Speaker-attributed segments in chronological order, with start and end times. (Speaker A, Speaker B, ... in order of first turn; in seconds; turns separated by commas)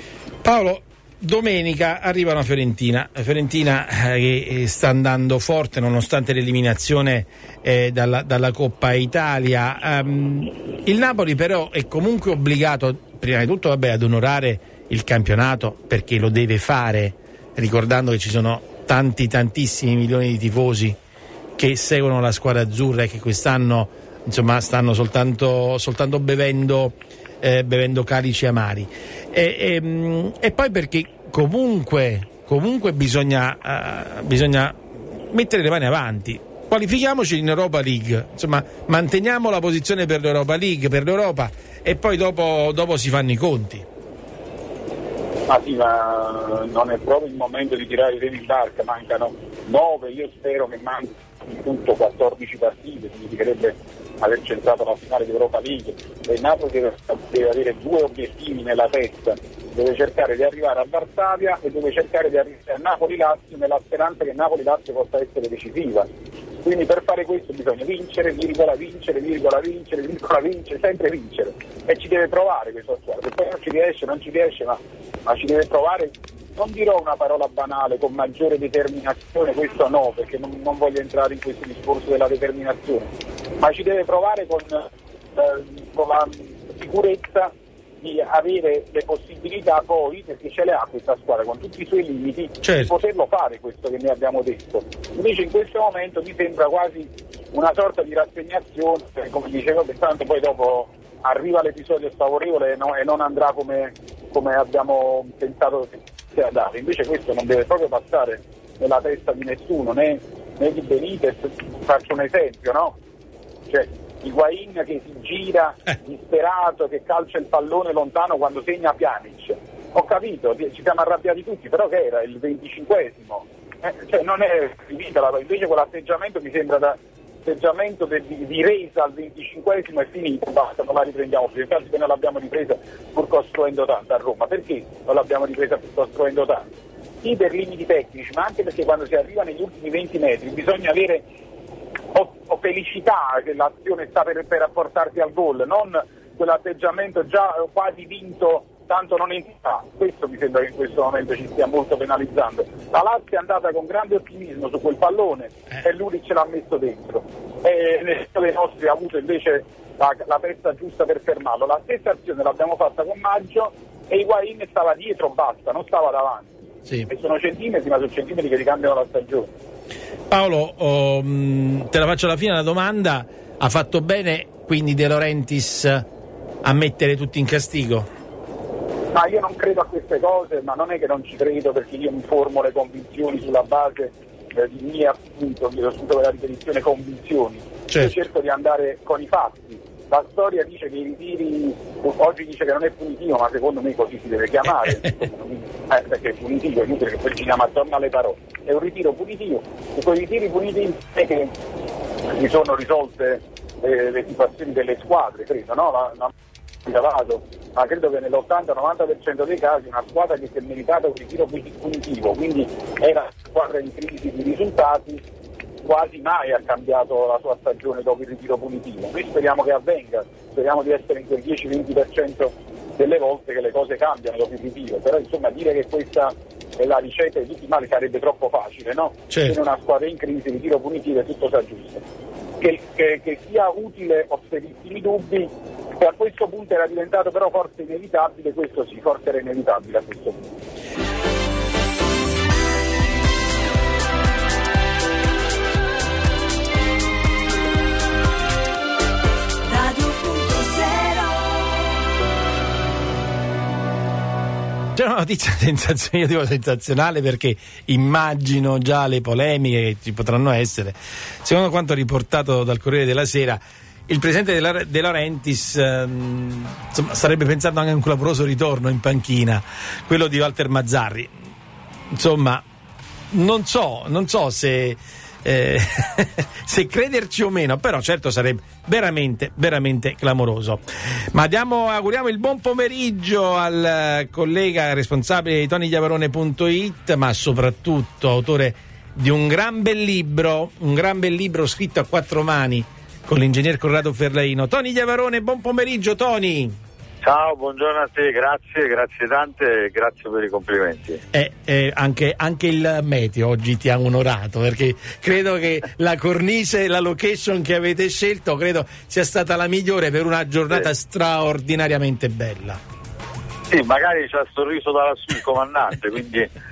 Speaker A: 0.4-21.0, Speaker A: 21.6-43.9, Speaker B: 45.5-66.1, Speaker B: 66.6-113.0, Speaker A: 92.6-92.9, Speaker B: 113.7-136.7, Speaker B: 137.2-141.2, Speaker B: 142.1-166.5, Speaker B: 167.1-169.5, Speaker A: 170.3-176.0, Speaker A: 176.6-178.1, Speaker B: 179.1-201.5, Speaker B: 202.3-206.3, Speaker B: 206.8-215.2, Speaker B: 215.8-232.0, Speaker A: 229.3-229.6, Speaker B: 232.6-240.4, Speaker A: 254.9-271.3, Speaker A: 272.1-272.6, Speaker A: 273.3-296.8, Speaker C: 297.2-301.2, Speaker A: 301.3-312.8, Speaker C: 313.7-316.5